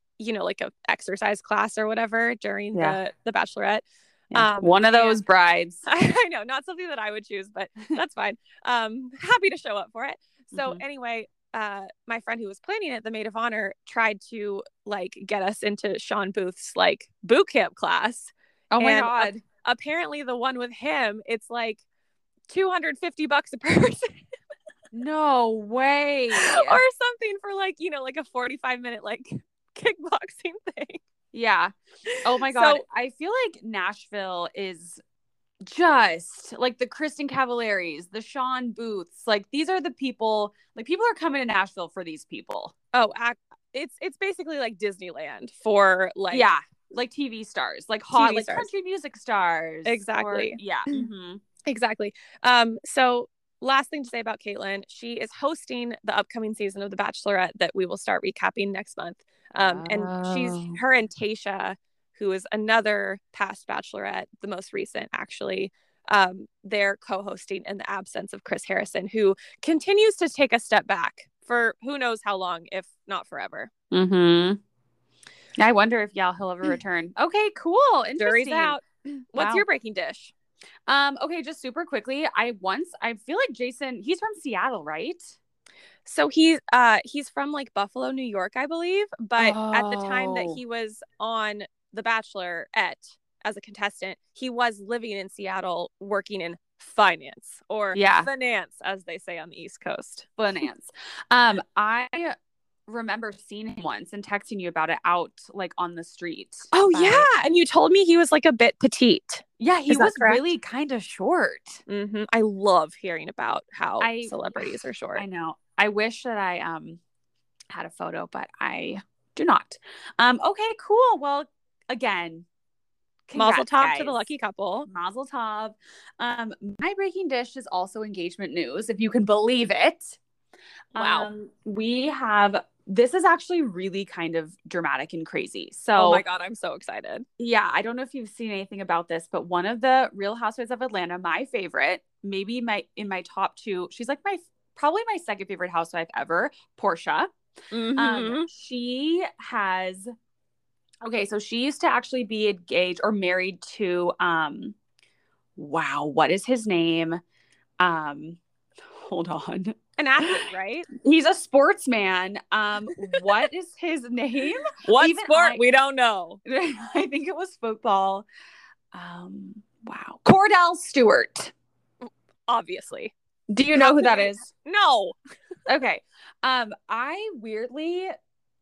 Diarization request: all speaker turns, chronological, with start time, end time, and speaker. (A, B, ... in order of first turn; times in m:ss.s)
0:00.2-0:05.2 A
0:02.7-0:03.0 B
0:04.3-0:05.9 B
0:05.9-0:21.8 A
0:10.5-0:10.8 B
0:18.7-0:19.4 B
0:22.5-0:24.2 A
0:24.9-0:26.8 B
0:26.3-0:31.0 A
0:31.3-0:35.0 B
0:32.4-0:32.8 A
0:35.6-0:42.7 B
0:42.9-0:46.5 A
0:46.3-0:51.4 B
0:48.1-0:48.7 A
0:49.8-0:51.0 A
0:51.6-1:13.7 A
0:59.6-1:00.8 B
1:13.9-1:14.6 B
1:15.6-1:18.8 B
1:18.2-1:20.3 A
1:19.4-1:19.6 B
1:20.9-1:25.4 B
1:26.0-1:40.3 A
1:29.4-1:30.6 B
1:38.0-1:38.3 B
1:40.4-1:42.4 B
1:42.9-1:47.3 B
1:46.7-1:50.4 A
1:49.6-1:51.8 B
1:51.9-1:55.2 A
1:54.0-1:57.0 B
1:57.7-2:02.5 B
2:03.3-2:04.3 B
2:03.4-2:04.9 A
2:04.9-2:10.2 B
2:11.0-2:11.3 A
2:11.0-2:16.2 B
2:16.0-2:17.2 A
2:17.4-2:27.3 B
2:27.7-2:28.5 A
2:28.0-2:30.1 B
2:31.0-2:34.8 B
2:35.6-2:37.2 B
2:37.8-2:38.4 B
2:39.1-2:45.6 B
2:40.0-2:40.9 A
2:44.8-2:46.4 A
2:46.4-2:48.3 B
2:48.9-2:51.5 B
2:52.0-2:53.1 A
2:53.5-2:54.5 B
2:53.7-2:55.2 A
2:55.7-2:58.2 B